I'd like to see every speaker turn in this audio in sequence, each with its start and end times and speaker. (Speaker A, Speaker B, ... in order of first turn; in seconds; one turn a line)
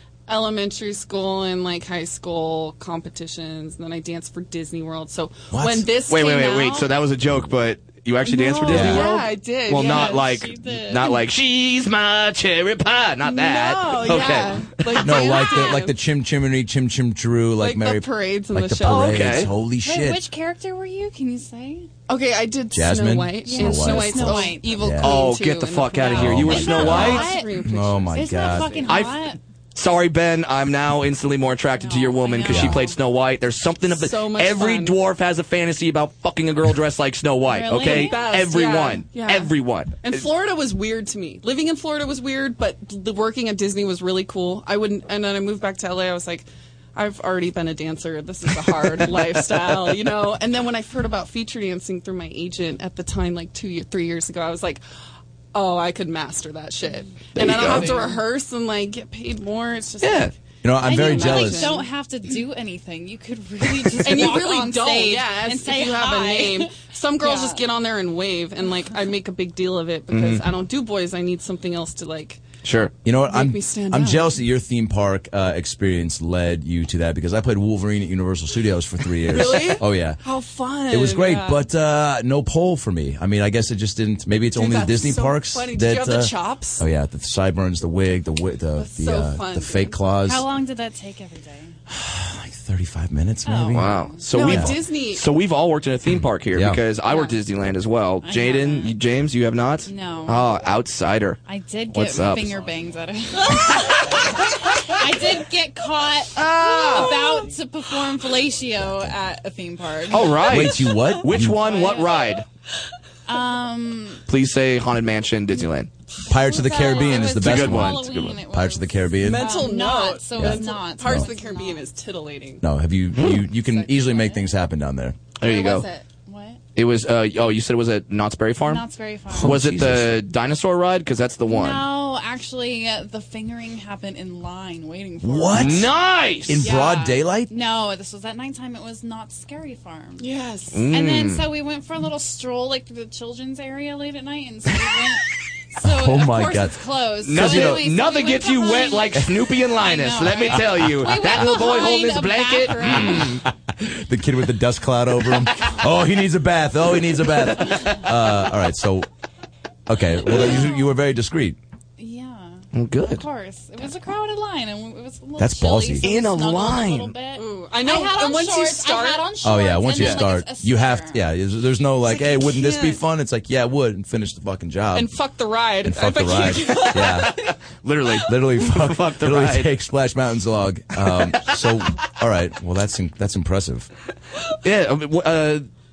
Speaker A: 0.3-6.9
Speaker B: 5.5-5.9
Speaker C: 6.1-15.2
Speaker A: 8.2-10.3
Speaker B: 8.7-9.1
Speaker D: 9.8-11.2
Speaker A: 13.2-15.9
Speaker B: 15.0-20.3
Speaker A: 17.6-19.5
Speaker C: 18.8-19.5
Speaker D: 19.8-21.9
Speaker A: 22.1-28.9
Speaker B: 22.7-25.3
Speaker D: 23.4-24.8
Speaker C: 25.0-27.3
Speaker B: 26.1-28.9
Speaker D: 26.6-27.5
Speaker D: 28.1-29.4
Speaker C: 28.9-40.2
Speaker D: 31.8-33.0
Speaker B: 32.5-32.9
Speaker A: 33.9-35.0
Speaker D: 37.5-38.3
Speaker A: 37.8-54.8
Speaker A: 55.5-61.9
Speaker C: 57.3-58.0
Speaker D: 57.5-58.2
Speaker C: 60.0-60.3
Speaker B: 60.6-61.8
Speaker D: 60.8-67.6
Speaker A: 64.0-72.4
Speaker C: 70.1-70.5
Speaker C: 72.6-72.9
Speaker B: 73.0-80.2
Speaker A: 73.2-74.4
Speaker A: 79.3-81.6
Speaker B: 80.9-90.5
Speaker A: 84.5-86.8
Speaker A: 88.8-90.0
Speaker D: 90.3-91.7
Speaker B: 91.9-94.8
Speaker D: 93.5-94.2
Speaker C: 93.7-101.4
Speaker A: 94.3-95.3
Speaker B: 96.5-96.8
Speaker D: 97.0-97.4
Speaker D: 98.2-99.0
Speaker D: 99.9-100.5
Speaker D: 101.5-110.5
Speaker C: 101.9-102.6
Speaker C: 106.4-107.1
Speaker B: 108.7-109.2
Speaker C: 110.1-112.5
Speaker B: 110.4-111.9
Speaker D: 111.5-112.3
Speaker D: 113.3-114.2
Speaker C: 114.3-115.9
Speaker B: 116.3-119.5
Speaker D: 116.3-121.9
Speaker C: 117.2-118.3
Speaker A: 119.2-122.6
Speaker B: 120.4-121.3
Speaker B: 122.6-125.2
Speaker D: 123.6-124.5
Speaker C: 125.4-125.9
Speaker A: 125.4-126.0
Speaker D: 126.2-126.6
Speaker C: 126.8-128.8
Speaker D: 128.6-129.6
Speaker B: 129.3-130.2
Speaker C: 129.4-131.8
Speaker D: 131.5-135.9
Speaker B: 135.2-137.5
Speaker C: 135.5-136.7
Speaker D: 136.6-140.3
Speaker A: 140.2-140.8
Speaker C: 140.7-141.5
Speaker D: 140.9-153.4
Speaker B: 145.8-147.9
Speaker C: 147.2-153.4
Speaker B: 153.0-159.1
Speaker B: 159.9-161.6
Speaker D: 160.4-160.9
Speaker D: 162.0-171.2
Speaker C: 162.7-163.2
Speaker B: 165.4-166.1
Speaker C: 166.0-167.2
Speaker A: 167.3-169.3
Speaker B: 169.4-175.1
Speaker A: 172.1-173.0
Speaker A: 174.9-177.5
Speaker B: 175.8-177.6
Speaker C: 176.7-177.1
Speaker C: 177.8-179.7
Speaker B: 178.1-183.9
Speaker C: 184.6-185.7